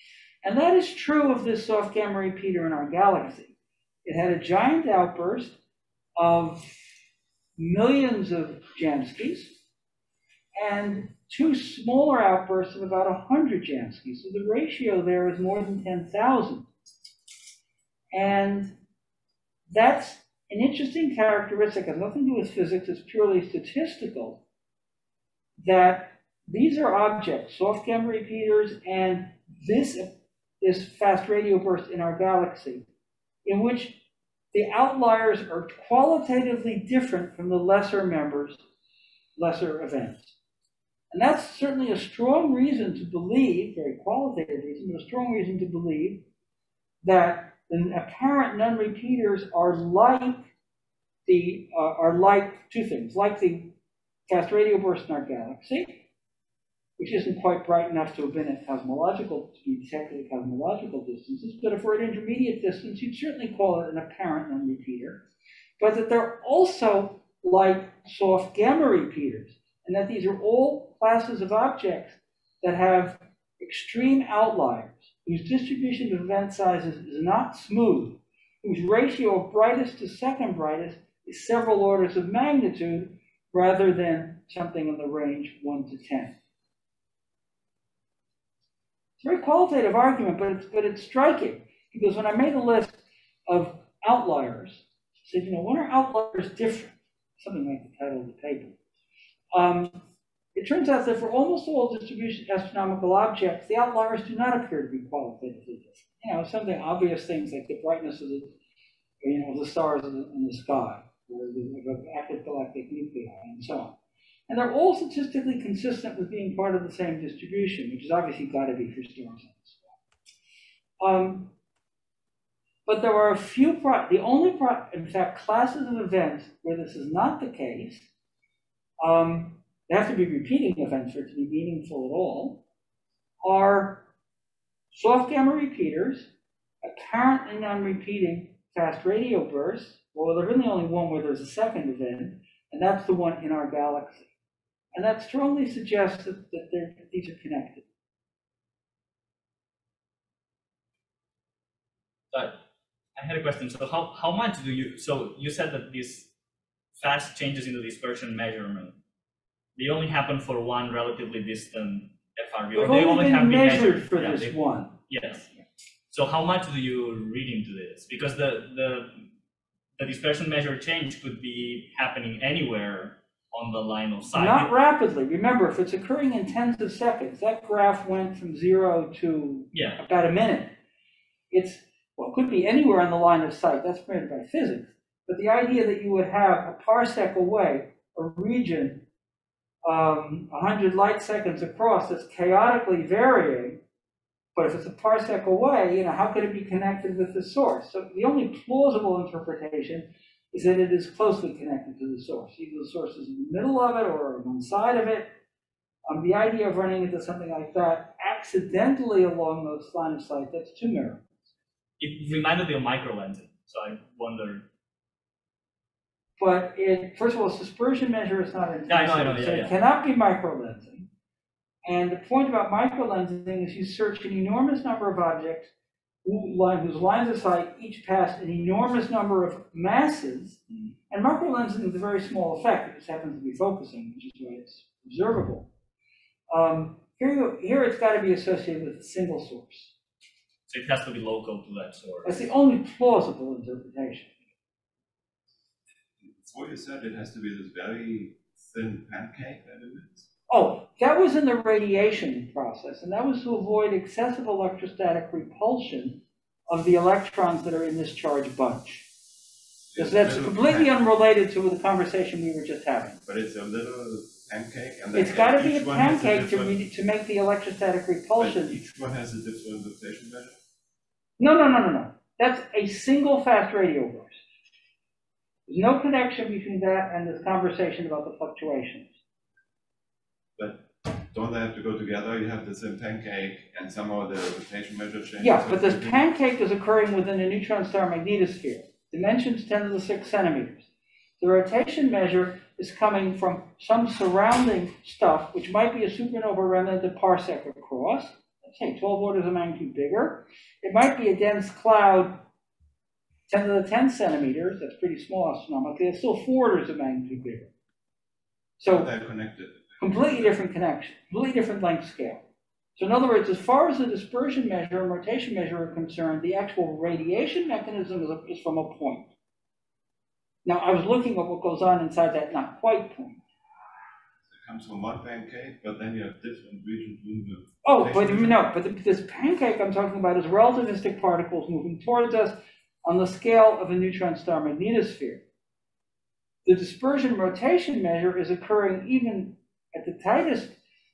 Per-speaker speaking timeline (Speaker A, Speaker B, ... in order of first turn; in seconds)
Speaker A: 0.4-5.6, 6.2-6.7, 7.6-9.6, 10.6-16.7, 18.1-18.8, 19.7-24.4, 25.6-32.9, 33.5-38.6, 39.4-40.4, 41.1-46.3, 47.0-50.5, 51.3-53.8, 54.3-56.1, 57.0-65.2, 65.8-86.3, 89.2-98.8, 99.5-100.0, 100.5-108.5, 109.2-114.0, 114.5-119.9, 121.0-121.5, 122.9-128.1, 129.0-132.6, 133.4-134.1, 134.9-136.3, 136.8-144.3, 144.9-147.8, 162.7-165.0, 174.3-180.8, 181.5-189.0, 189.8-193.8, 194.6-205.3, 206.1-211.3, 216.4-221.1, 221.8-225.7, 226.2-235.7, 236.5-239.9, 242.2-244.3, 250.5-259.1, 260.0-263.2, 265.1-268.8, 271.4-274.4, 275.7-279.1, 285.4-290.9, 291.4-302.4, 303.5-307.7, 308.8-309.1, 310.0-312.4, 313.0-319.3, 320.6-323.4, 327.8-335.4, 336.6-340.8
Speaker B: 152.3-152.6, 153.2-156.3, 157.0-159.0, 159.8-164.6, 165.1-165.5, 166.1-169.3, 170.0-174.7, 179.7-180.0, 212.0-214.7, 218.9-219.7, 240.7-242.5
Speaker C: 246.2-250.3, 259.9-260.9, 263.3-266.8, 268.4-270.6, 280.6-286.2, 308.9-310.5, 324.5-328.6